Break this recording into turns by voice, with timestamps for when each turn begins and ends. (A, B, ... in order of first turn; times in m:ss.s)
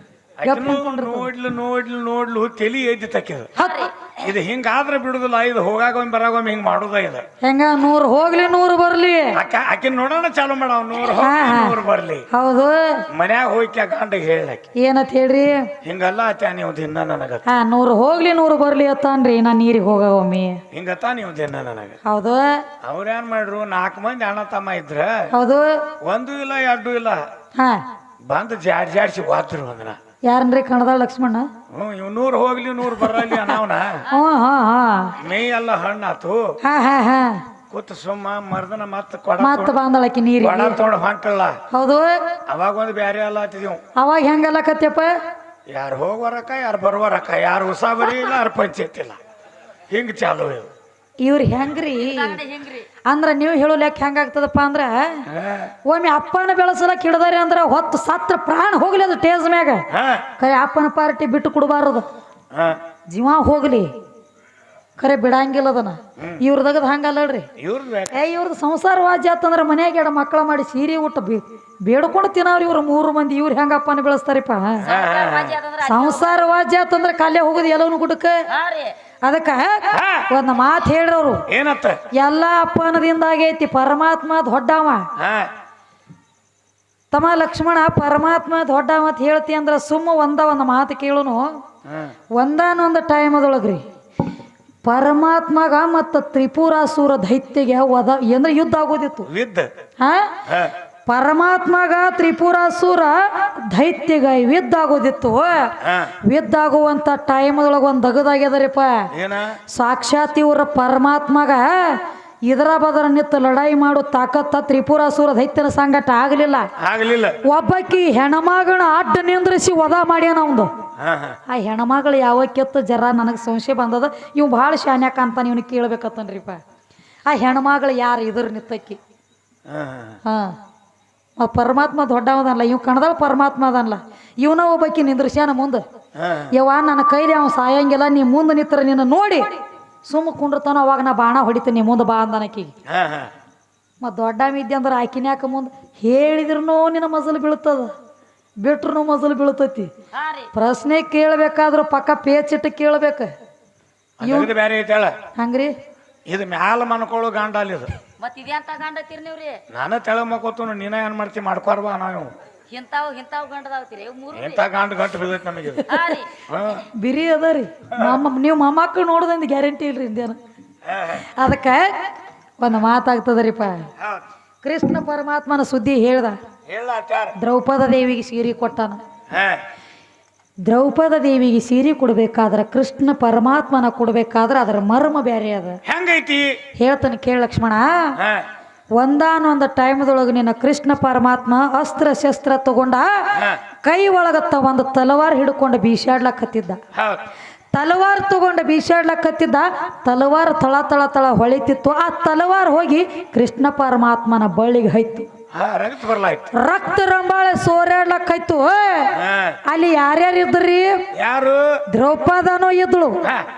0:00.4-0:03.5 A
0:00.4-0:01.3 B
0:03.6-0:03.9 B
0:03.6-0:04.1 C
0:04.2-0:07.2 A
0:07.4-0:09.4 B
0:09.4-0:12.3 A
0:11.1-0:11.8 B
0:12.3-0:13.0 B
0:13.1-0:14.7 A
0:14.8-0:15.7 B
0:15.8-0:17.4 A
0:17.5-0:20.6 B
0:20.7-0:22.0 A
0:22.0-0:22.7 B
0:22.8-0:25.3 A
0:25.3-0:25.9 B
0:26.0-0:27.2 A
0:27.6-0:27.8 B
0:28.3-0:30.0 A
0:30.3-0:31.5 B
0:31.7-0:34.0 A
0:33.1-0:33.5 B
0:34.1-0:35.2 B
0:35.2-0:36.6 A
0:36.6-0:37.4 B
0:37.7-0:39.8 A
0:39.4-0:40.8 B
0:40.4-0:41.6 A
0:41.7-0:42.4 B
0:42.5-0:43.8 A
0:44.0-0:45.1 B
0:45.7-0:49.2 A
0:49.9-0:50.7 A
0:51.2-0:52.4 B
0:52.1-0:52.8 C
0:53.1-0:55.3 B
0:55.3-0:55.7 A
0:55.8-0:59.9 B
0:59.9-1:00.3 A
1:00.4-1:02.1 B
1:02.5-1:02.8 A
1:03.1-1:03.9 B
1:05.0-1:07.5 B
1:07.6-1:08.2 A
1:08.1-1:14.9 B
1:14.8-1:15.6 A
1:14.9-1:16.6 C
1:15.8-1:18.5 B
1:18.5-1:19.0 C
1:19.2-1:21.5 B
1:19.9-1:20.3 A
1:21.5-1:22.0 A
1:22.1-1:25.1 B
1:25.2-1:25.5 A
1:27.1-1:31.5 B
1:31.9-1:32.1 A
1:32.4-1:33.8 B
1:34.8-1:39.3 B
1:39.3-1:39.7 A
1:40.0-1:40.4 B
1:40.5-1:40.8 A
1:41.1-1:49.1 B
1:45.8-1:46.2 A
1:49.1-1:49.6 A
1:49.7-1:56.7 B
1:56.8-1:57.4 A
1:57.4-2:00.7 B
2:01.0-2:01.4 A
2:01.5-2:06.6 B
2:07.3-2:09.0 B
2:09.7-2:10.2 A
2:10.2-2:10.6 B
2:11.4-2:15.8 B
2:16.2-2:16.5 A
2:16.5-2:22.7 B
2:22.9-2:23.3 A
2:24.0-2:27.9 B
2:28.6-2:29.9 B
2:30.1-2:30.5 C
2:30.5-2:33.3 B
2:34.2-2:35.2 A
2:34.2-2:34.5 B
2:35.4-2:35.7 B
2:36.3-2:38.0 A
2:38.2-2:39.6 C
2:39.7-2:42.3 A
2:42.7-2:44.6 C
2:44.3-2:45.9 A
2:45.9-2:46.3 C
2:46.5-2:46.9 A
2:47.0-2:50.4 B
2:50.9-2:51.3 A
2:51.2-2:52.1 B
2:52.6-2:53.9 B
2:54.0-2:54.2 A
2:54.6-2:56.4 B
2:56.7-2:57.3 A
2:57.4-2:59.0 B
2:59.3-2:59.6 A
3:00.7-3:05.8 B
3:05.8-3:06.6 A
3:06.8-3:08.2 B
3:08.2-3:08.5 A
3:09.0-3:13.3 B
3:13.4-3:13.6 A
3:13.8-3:16.8 B
3:16.9-3:17.2 A
3:17.8-3:25.3 B
3:25.5-3:26.5 A
3:26.5-3:31.1 B
3:29.1-3:29.6 A
3:31.1-3:31.7 A
3:31.9-3:33.2 B